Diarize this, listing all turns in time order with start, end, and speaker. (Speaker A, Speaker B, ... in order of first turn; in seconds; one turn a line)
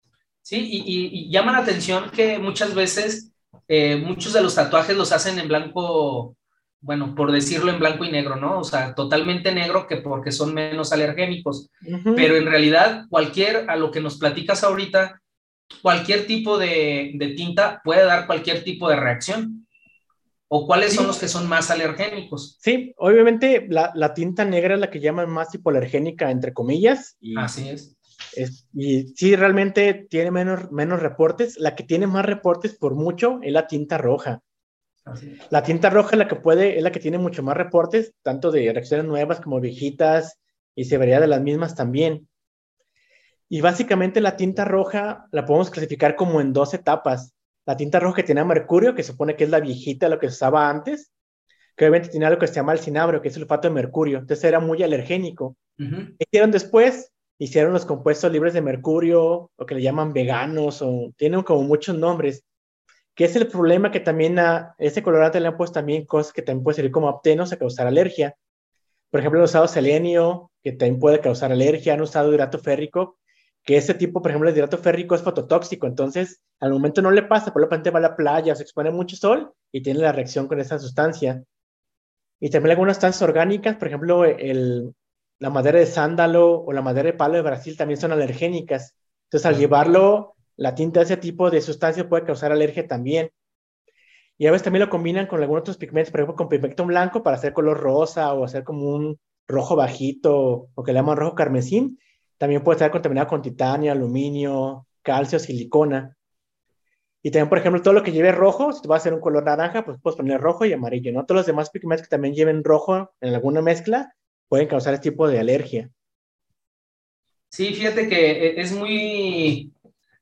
Speaker A: 0.4-15.2
Speaker B: 11.8-12.3
Speaker A: 15.8-19.6
Speaker A: 20.5-22.5
Speaker B: 22.6-27.5
Speaker A: 27.3-27.9
Speaker B: 28.3-34.4
Speaker A: 35.0-35.4
Speaker B: 35.5-42.3
Speaker B: 43.5-51.1
Speaker B: 51.8-55.6
Speaker A: 55.8-56.2
Speaker B: 56.2-62.4
Speaker B: 63.1-68.3
Speaker B: 69.1-81.4
Speaker B: 82.4-93.3
Speaker B: 94.4-106.1
Speaker B: 107.2-115.9
Speaker A: 117.5-119.7